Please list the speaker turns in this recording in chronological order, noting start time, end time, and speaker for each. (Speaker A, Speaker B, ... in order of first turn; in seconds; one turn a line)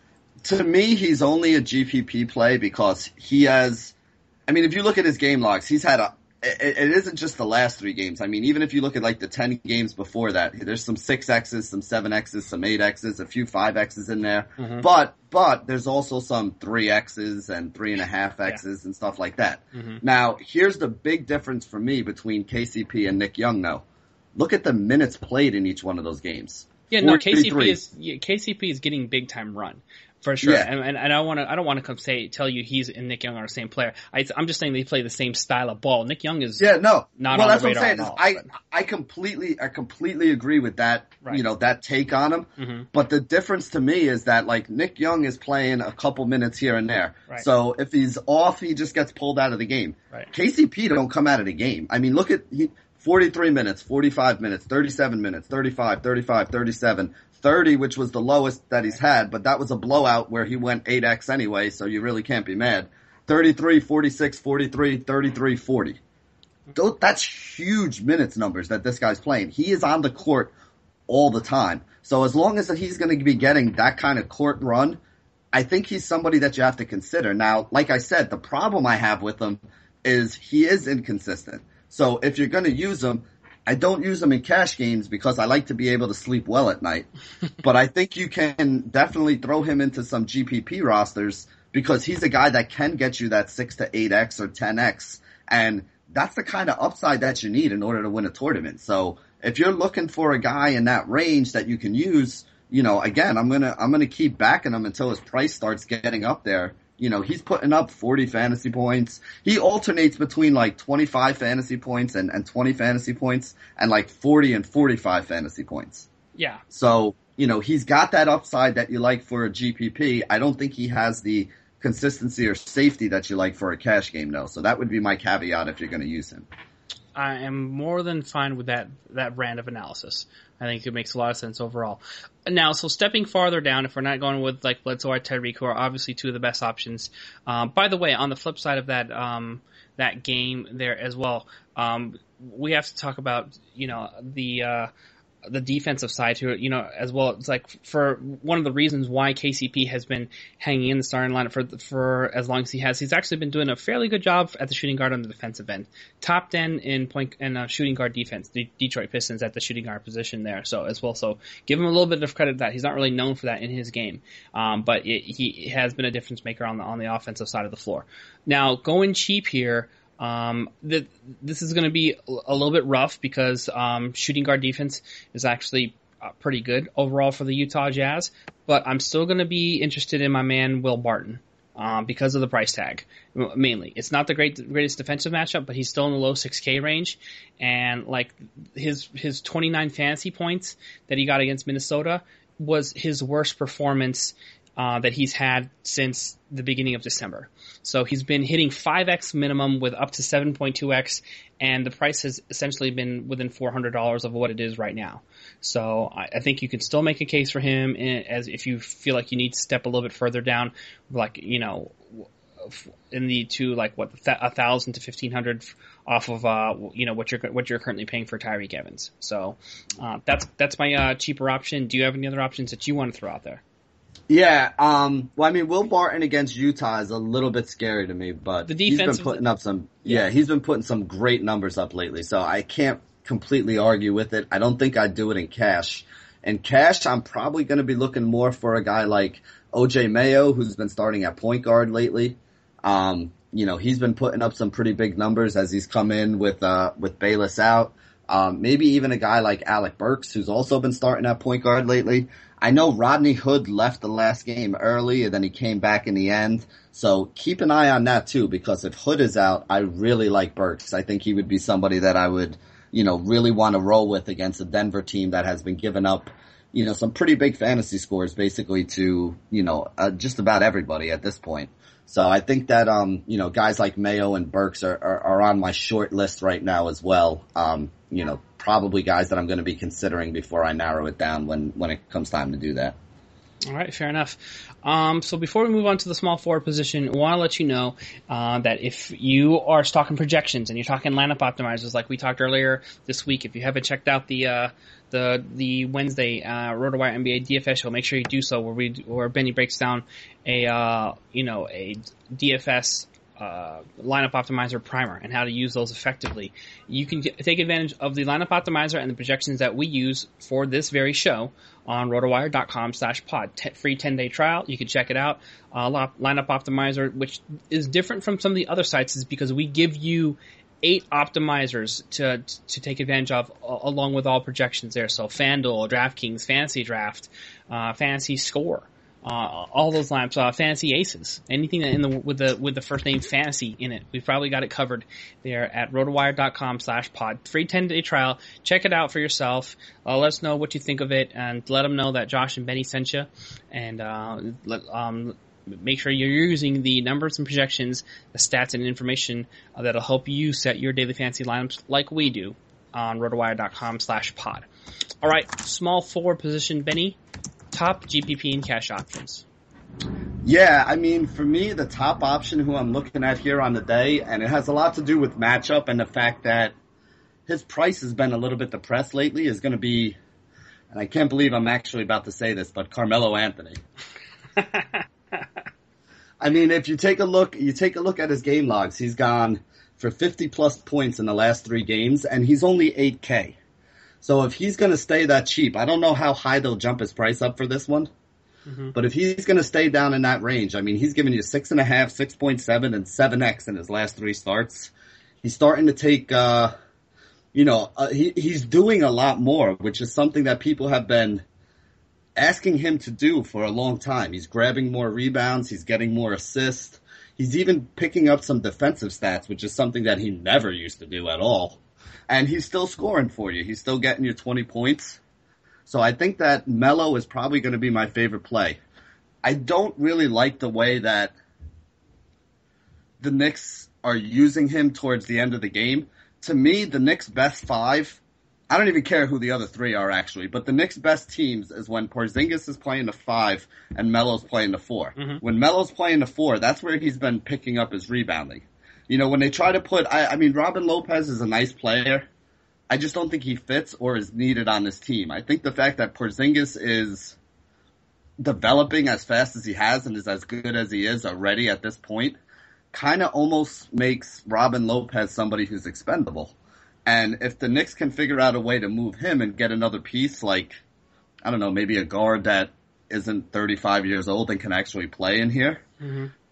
Speaker A: 0.4-3.9
Speaker A: 4.5-23.8
Speaker B: 14.6-14.8
Speaker B: 19.7-20.0
Speaker A: 24.4-27.8
Speaker B: 26.9-36.6
Speaker A: 30.4-30.7
Speaker A: 36.6-66.0
Speaker B: 37.2-38.5
Speaker B: 42.6-42.9
Speaker A: 66.7-70.5
Speaker A: 71.1-75.0
Speaker A: 75.5-87.1
Speaker A: 87.6-116.1
Speaker B: 116.3-116.6
Speaker A: 116.7-126.5
Speaker B: 127.2-144.9
Speaker B: 145.5-223.6
Speaker A: 224.3-282.9
Speaker B: 228.6-229.4
Speaker B: 283.7-354.6
Speaker B: 355.2-357.2
Speaker B: 357.7-359.4
Speaker A: 360.4-366.7
Speaker A: 367.5-370.2
Speaker A: 370.9-373.8
Speaker B: 374.6-375.4
Speaker A: 376.4-383.6
Speaker A: 384.2-388.1
Speaker B: 388.7-388.9
Speaker A: 388.9-394.9
Speaker A: 395.4-396.7
Speaker A: 397.5-401.4
Speaker A: 402.4-415.2
Speaker A: 415.9-418.8
Speaker A: 419.4-421.3
Speaker A: 423.2-428.2
Speaker A: 428.7-442.3
Speaker B: 435.1-435.4
Speaker A: 442.9-447.4
Speaker A: 448.4-452.4
Speaker A: 452.9-456.5
Speaker A: 457.1-460.8
Speaker A: 461.4-465.8
Speaker B: 466.0-466.3